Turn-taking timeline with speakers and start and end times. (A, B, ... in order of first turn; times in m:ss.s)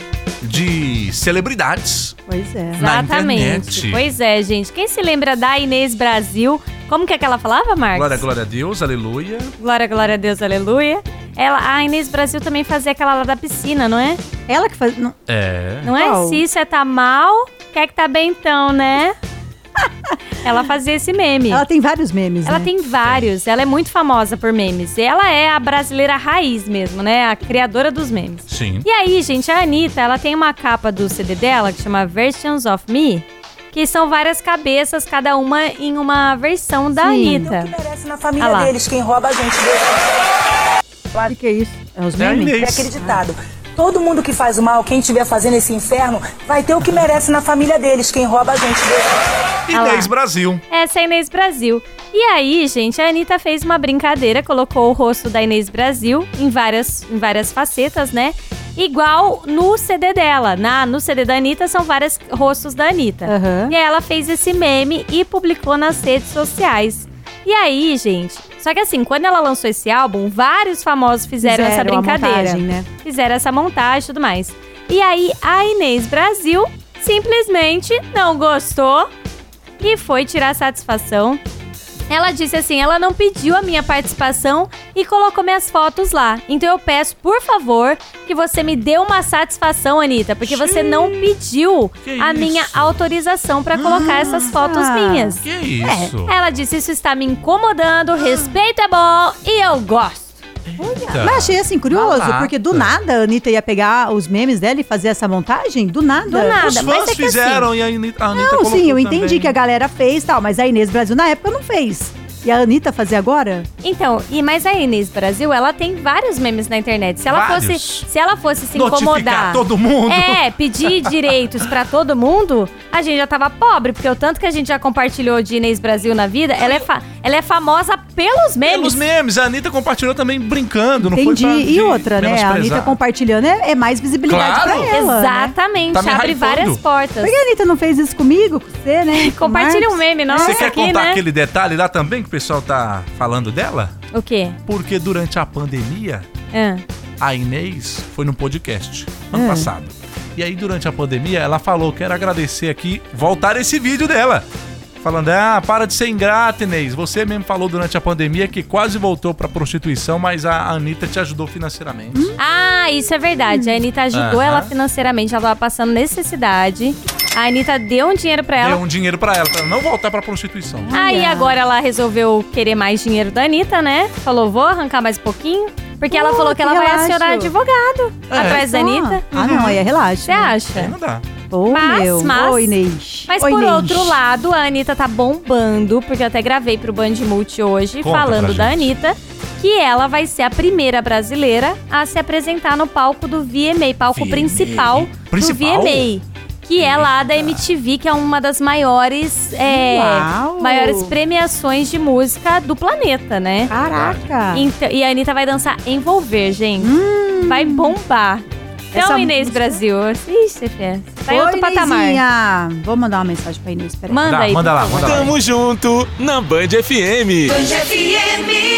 0:00.4-0:02.2 A
0:02.3-0:02.8 B
0:02.7-0:08.2 C
0:02.8-0:04.0 A
0:07.9-0:09.5 A
0:09.6-0:14.2 C
0:14.5-0:15.2 B
0:15.3-0:15.9 A
0:15.8-0:19.1 C
0:15.9-0:16.4 B
0:19.8-0:20.5 B
0:20.4-0:21.6 C
0:21.5-0:22.7 B
0:22.4-0:37.7 C
0:23.0-0:23.3 A
0:28.5-0:28.8 A
0:37.0-0:37.5 B
0:37.2-0:40.1 D
0:38.4-0:38.7 C
0:41.2-0:43.2 B
0:42.2-0:42.9 A
0:42.6-0:49.2 D
0:49.7-0:50.6 A
0:49.7-0:50.1 C
0:50.7-1:19.1 C
1:03.2-1:03.8 B
1:11.4-1:12.9 B
1:19.8-1:21.4 C
1:22.1-1:35.4 C
1:30.5-1:30.9 B
1:32.0-1:33.0 A
1:33.7-1:36.1 B
1:35.4-1:36.3 A
1:36.2-1:40.4 C
1:40.6-1:42.9 A
1:40.8-1:46.7 B
1:46.3-1:47.7 C
1:46.6-1:49.5 A
1:48.3-1:53.7 B
1:53.8-2:09.0 C
1:57.3-1:58.1 A
1:58.7-2:01.1 A
2:08.6-2:13.0 A
2:11.0-2:15.5 B
2:14.3-2:15.0 A
2:14.9-2:17.3 C
2:15.9-2:16.8 A
2:17.2-2:20.7 B
2:19.1-2:21.2 C
2:20.3-2:23.9 A
2:24.1-2:24.6 C
2:24.6-2:26.3 A
2:26.5-2:26.8 C
2:27.2-2:34.4 A
2:29.3-2:29.7 B
2:35.0-2:42.3 A
2:42.1-2:42.4 B
2:42.4-2:48.8 C
2:43.5-2:43.8 B
2:44.1-2:44.7 A
2:48.6-2:51.0 A
2:50.8-2:51.6 B
2:50.9-3:01.0 C
2:56.1-2:57.5 B
2:58.3-2:58.6 A
2:58.3-3:00.6 B
2:59.3-2:59.8 A
3:00.8-3:01.2 A
3:01.5-3:04.2 B
3:01.7-3:02.7 C
3:03.3-3:23.7 C
3:08.0-3:08.9 A
3:14.1-3:16.1 A
3:16.8-3:17.6 A
3:19.6-3:21.1 B
3:23.7-3:24.4 A
3:23.7-3:24.7 B
3:24.5-3:32.2 C
3:26.8-3:28.0 B
3:28.9-3:29.8 B
3:31.3-3:34.3 B
3:34.1-3:35.3 C
3:34.2-3:35.3 A
3:35.0-3:38.1 E